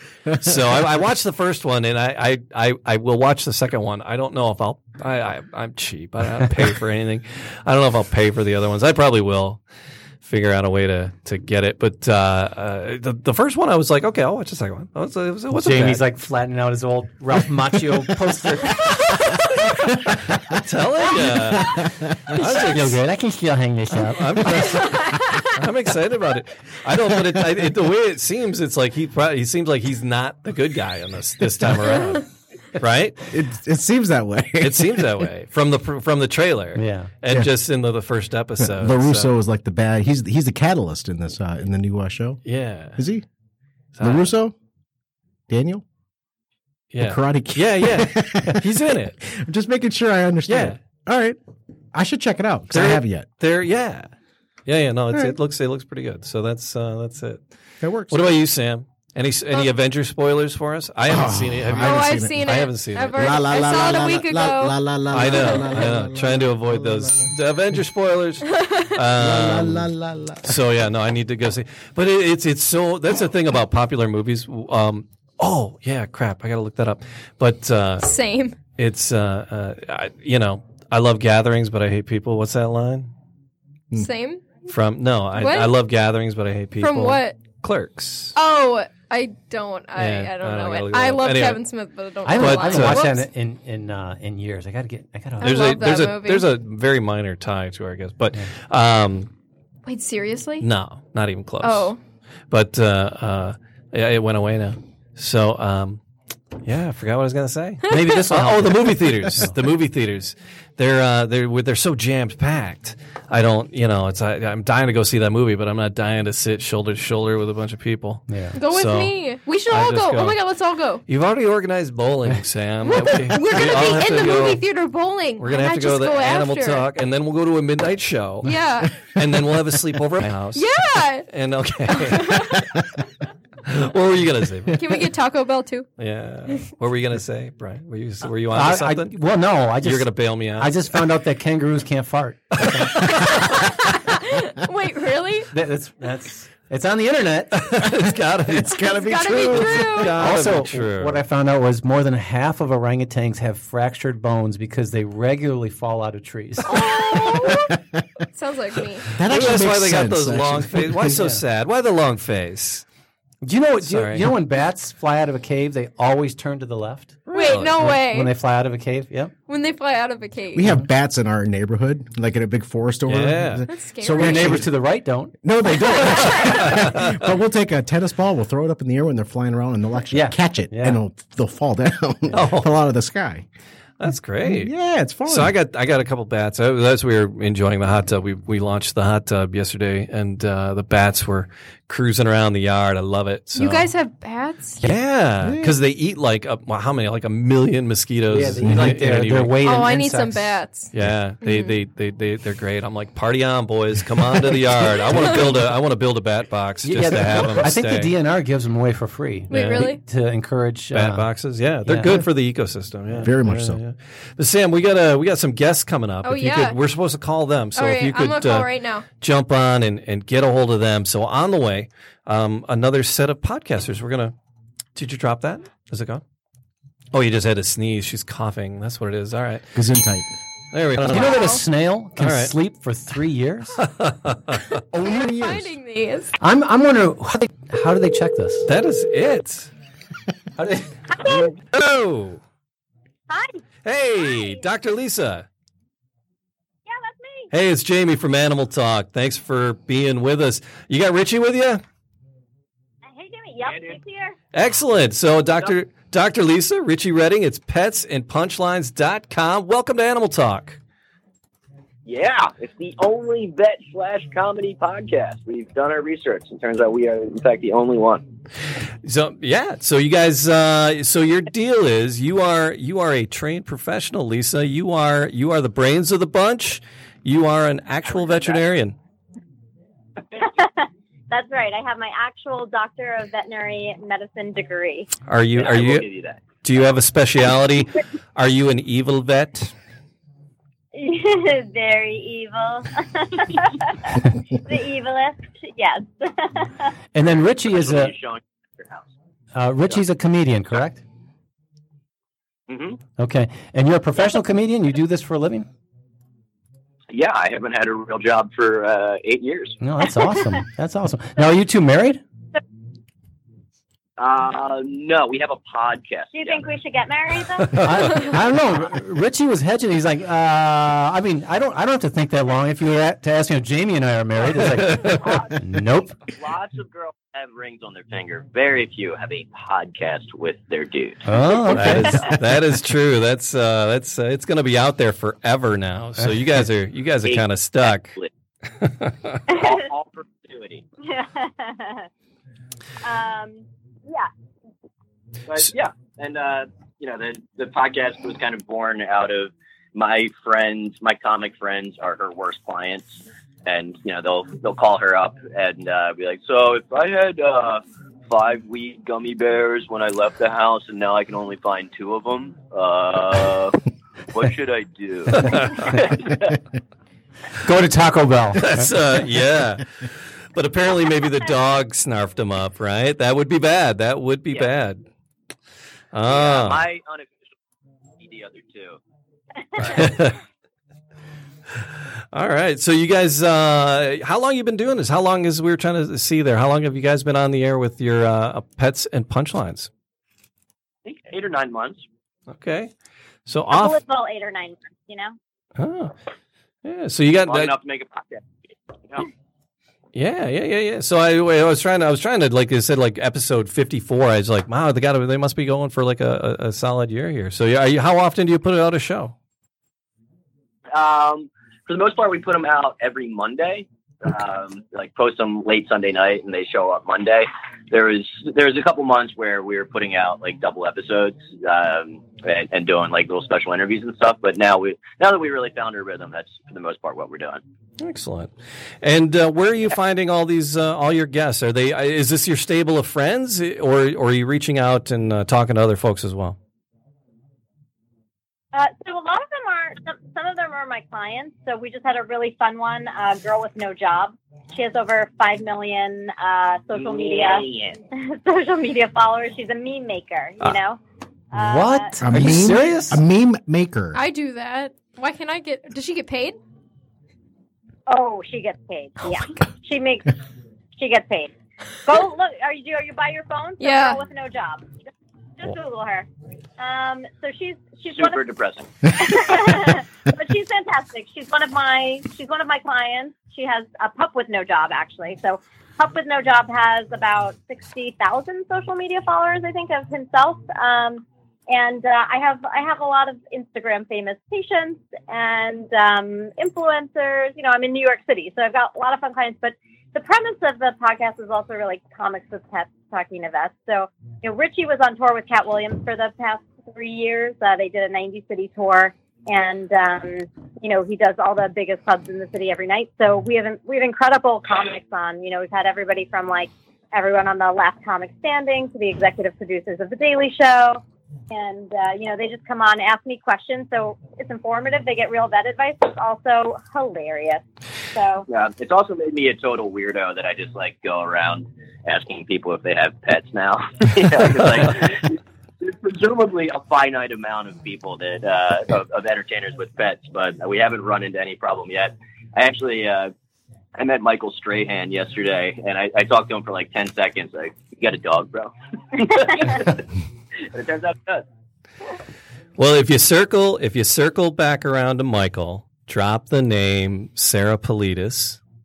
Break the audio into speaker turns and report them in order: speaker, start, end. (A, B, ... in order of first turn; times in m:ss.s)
0:00.3-0:00.6 A
0:00.3-0:09.6 B
0:10.2-0:16.0 B
0:15.5-0:19.1 C
0:20.5-0:23.0 B
0:21.2-0:22.3 A
0:22.4-0:24.4 C
0:24.0-0:33.2 B
0:24.8-0:25.3 D
0:33.3-0:35.3 A
0:34.6-0:39.3 B
0:36.8-0:37.1 C
0:38.6-0:42.4 A
0:42.4-0:43.0 B
0:42.9-0:43.2 A
0:44.0-0:44.3 B
0:44.0-0:44.5 A
0:45.5-0:45.8 A
0:46.9-0:49.2 B
0:47.0-0:51.4 A
0:50.5-0:50.8 B
0:51.9-0:53.3 A
0:52.7-0:54.1 B
0:54.6-0:57.4 B
0:57.8-0:58.4 A
0:58.1-1:03.4 B
1:01.1-1:02.5 A
1:01.8-1:05.6 D
1:03.1-1:07.3 A
1:05.1-1:09.9 B
1:08.5-1:08.9 D
1:09.2-1:10.6 A
1:10.4-1:18.1 B
1:18.0-1:18.6 D
1:18.8-1:23.1 B
1:23.9-1:24.5 D
1:24.7-1:28.4 B
1:25.3-1:25.7 D
1:26.8-1:27.4 D
1:28.3-1:33.3 D
1:30.0-1:31.6 B
1:32.2-1:35.8 C
1:32.3-1:33.1 B
1:35.4-1:36.5 D
1:35.4-1:39.3 B
1:39.8-1:40.7 D
1:40.6-1:41.9 B
1:41.6-1:42.0 D
1:42.5-1:46.0 B
1:46.6-1:59.2 B
1:47.9-1:48.2 D
1:47.9-1:49.6 C
1:58.3-1:58.5 C
1:58.5-2:01.0 D
1:59.7-2:00.4 B
2:01.1-2:04.7 B
2:02.8-2:06.8 D
2:05.4-2:12.7 B
2:08.4-2:09.1 D
2:10.5-2:11.3 D
2:11.9-2:12.6 D
2:13.6-2:15.1 B
2:14.8-2:15.9 D
2:16.0-2:19.2 B
2:18.5-2:23.1 C
2:19.8-2:20.7 B
2:23.0-2:23.2 B
2:23.6-2:25.5 D
2:25.5-2:27.6 C
2:27.5-2:31.2 B
2:28.5-2:30.1 A
2:28.7-2:30.1 D
2:30.1-2:37.0 C
2:36.7-2:37.7 D
2:36.7-2:37.8 A
2:38.3-2:39.1 D
2:39.1-2:41.2 A
2:39.2-2:42.8 B
2:43.4-2:47.2 C
2:43.8-2:44.3 B
2:47.3-2:48.0 B
2:47.3-2:48.3 D
2:47.8-2:49.3 C
2:49.5-2:50.7 D
2:50.5-2:54.6 A
2:53.1-2:53.7 B
2:53.7-2:54.6 D
2:54.0-2:55.3 C
2:55.4-3:03.4 A
2:56.3-2:57.2 B
3:00.1-3:01.0 C
3:02.3-3:02.7 B
3:04.0-3:04.7 B
3:04.4-3:05.5 A
3:05.2-3:13.9 B
3:13.5-3:14.8 D
3:14.8-3:19.6 B
3:15.4-3:15.8 A
3:18.3-3:20.6 C
3:18.6-3:19.0 A
3:19.6-3:21.8 D
3:20.9-3:28.1 B
3:26.8-3:31.2 C
3:27.1-3:27.6 A
3:29.5-3:29.9 B
3:29.5-3:30.0 D
3:30.9-3:44.3 B
3:31.8-3:32.2 C
3:33.2-3:33.8 A
3:36.2-3:36.8 D
3:37.7-3:39.0 D
3:45.0-3:46.2 B
3:47.1-3:49.6 B
3:49.7-3:50.3 A
3:50.7-3:51.5 B
3:51.0-3:53.8 C
3:51.1-3:51.6 D
3:52.2-3:52.5 B
3:53.8-3:54.7 B
3:54.9-3:55.7 A
3:55.0-3:56.4 D
3:56.4-3:58.7 C
3:58.7-3:59.7 B
4:00.6-4:00.9 C
4:01.1-4:01.5 E
4:01.7-4:02.4 B
4:03.3-4:03.6 E
4:03.8-4:05.4 B
4:04.2-4:04.6 E
4:06.8-4:07.5 E
4:07.5-4:11.8 B
4:13.1-4:14.4 E
4:13.6-4:14.0 F
4:14.5-4:20.8 B
4:22.0-4:28.3 F
4:29.0-4:39.0 B
4:38.1-4:38.6 F
4:40.4-4:45.1 E
4:45.3-4:46.0 B
4:45.5-4:46.4 F
4:46.6-4:49.7 B
4:50.9-4:56.9 E
4:57.1-4:58.1 C
4:57.6-4:59.1 F
4:59.5-5:01.0 C
5:02.7-5:03.0 F
5:03.2-5:05.7 C
5:07.1-5:09.8 F
5:09.8-5:12.2 C
5:14.2-5:16.7 F
5:16.3-5:18.2 E
5:17.7-5:18.0 B
5:17.8-5:26.2 C
5:24.7-5:25.3 B
5:25.0-5:25.5 F
5:26.4-5:32.4 F
5:31.2-5:32.2 C
5:31.7-5:38.2 B
5:37.2-5:38.3 F
5:38.8-5:39.4 B
5:39.5-5:40.8 F
5:39.5-5:39.8 E
5:41.0-5:42.1 E
5:43.0-5:44.3 E
5:45.5-6:03.8 F
6:04.3-6:06.5 F
6:05.3-6:06.0 B
6:07.6-6:08.9 C
6:08.6-6:10.0 B
6:10.5-6:15.0 B
6:16.1-6:16.9 B
6:16.2-6:17.4 F
6:18.2-6:19.0 F
6:19.8-6:20.2 E
6:19.8-6:20.4 B
6:22.3-6:29.9 B
6:31.0-6:32.0 F
6:32.5-6:32.9 B
6:33.5-6:34.0 B
6:33.7-6:35.4 E
6:35.8-6:36.1 B
6:36.8-6:37.7 B
6:37.4-6:39.3 F
6:40.1-6:49.3 B
6:50.9-7:07.6 F
7:08.0-7:16.6 B
7:18.7-7:31.0 E
7:26.9-7:28.0 F
7:31.5-7:32.1 E
7:31.6-7:33.2 C
7:32.2-7:34.2 A
7:34.1-7:36.6 D
7:38.1-7:40.3 E
7:41.0-7:41.5 E
7:42.0-7:44.8 E
7:43.8-7:44.2 D
7:45.6-7:46.3 E
7:46.8-7:48.4 E
7:48.1-7:49.6 F
7:49.1-8:38.4 E
8:38.5-8:53.3 F
8:54.0-9:00.0 F
9:00.7-9:01.4 F
9:02.8-9:08.6 B